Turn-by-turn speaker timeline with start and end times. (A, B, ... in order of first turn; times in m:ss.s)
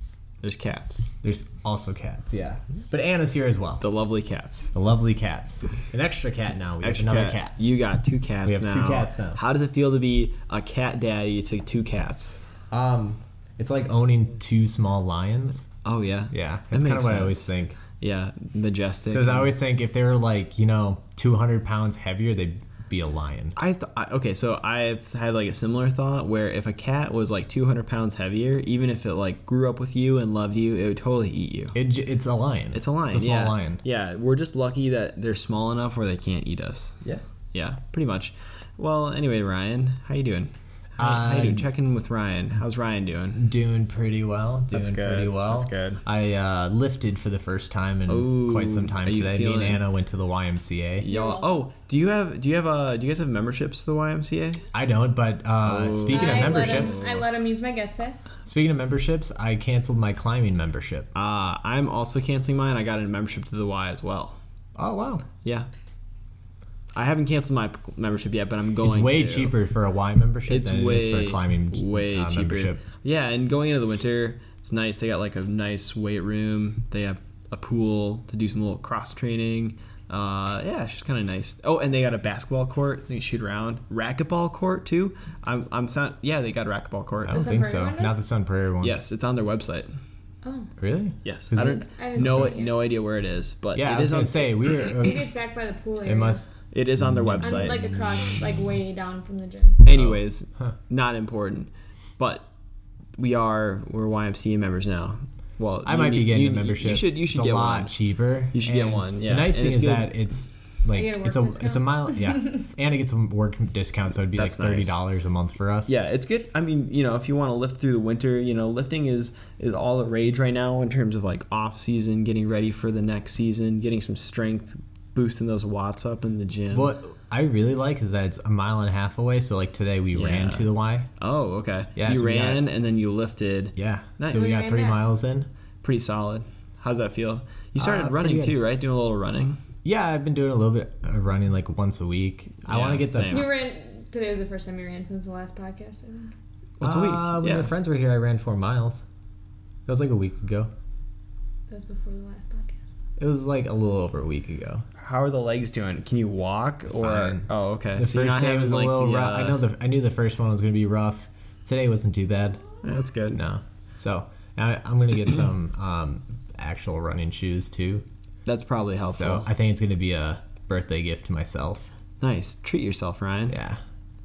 0:00.4-0:01.0 A
0:01.2-0:03.8 B
0:03.8-0:04.7 A
0:04.7-0:07.6 B
0:06.8-0:12.4 A
0:08.4-0:09.4 B
0:12.7-0:15.7 B
0:15.8-0:19.5 A
0:16.3-0:17.8 B
0:19.1-0:23.6 B
0:23.6-0:31.8 A
0:31.8-0:33.8 B
0:32.7-0:43.5 A
0:41.0-0:41.7 B
0:43.4-0:51.1 B
0:44.7-0:46.0 A
0:48.1-0:49.8 A
0:51.0-0:54.6 A
0:51.0-0:51.6 C
0:54.7-0:57.0 B
0:55.6-0:57.2 A
0:56.1-0:58.3 C
0:58.4-1:01.1 B
1:01.2-1:04.4 A
1:04.8-1:05.2 B
1:07.0-1:09.5 A
1:08.8-1:12.8 B
1:10.5-1:27.5 A
1:27.3-1:29.0 B
1:27.3-1:28.2 C
1:28.8-1:29.9 A
1:30.4-1:30.7 C
1:30.8-1:32.5 B
1:31.2-1:34.5 A
1:31.6-1:32.8 C
1:33.8-1:35.3 B
1:35.0-1:36.4 C
1:36.0-1:38.0 B
1:36.7-1:37.8 A
1:37.4-1:39.8 C
1:39.8-1:42.5 A
1:39.9-1:40.7 B
1:43.2-1:48.0 A
1:45.8-1:55.9 B
1:48.5-1:50.1 A
1:50.9-1:52.6 C
1:54.4-1:55.0 A
1:55.9-2:06.9 A
2:06.7-2:11.1 B
2:10.1-2:10.7 A
2:11.2-2:14.7 A
2:12.0-2:12.6 B
2:13.8-2:15.5 B
2:14.3-2:15.0 C
2:15.8-2:19.6 A
2:17.8-2:18.6 B
2:19.8-2:23.5 B
2:22.6-2:23.5 A
2:23.3-2:26.3 C
2:26.8-2:27.7 A
2:26.8-2:29.1 B
2:29.9-2:30.7 B
2:31.7-2:33.0 C
2:33.2-2:34.8 B
2:35.0-2:39.6 A
2:37.0-2:42.6 B
2:42.8-2:43.4 A
2:43.3-2:48.0 B
2:48.4-2:49.5 A
2:49.1-2:51.9 B
2:52.2-2:53.6 A
2:53.5-2:53.8 B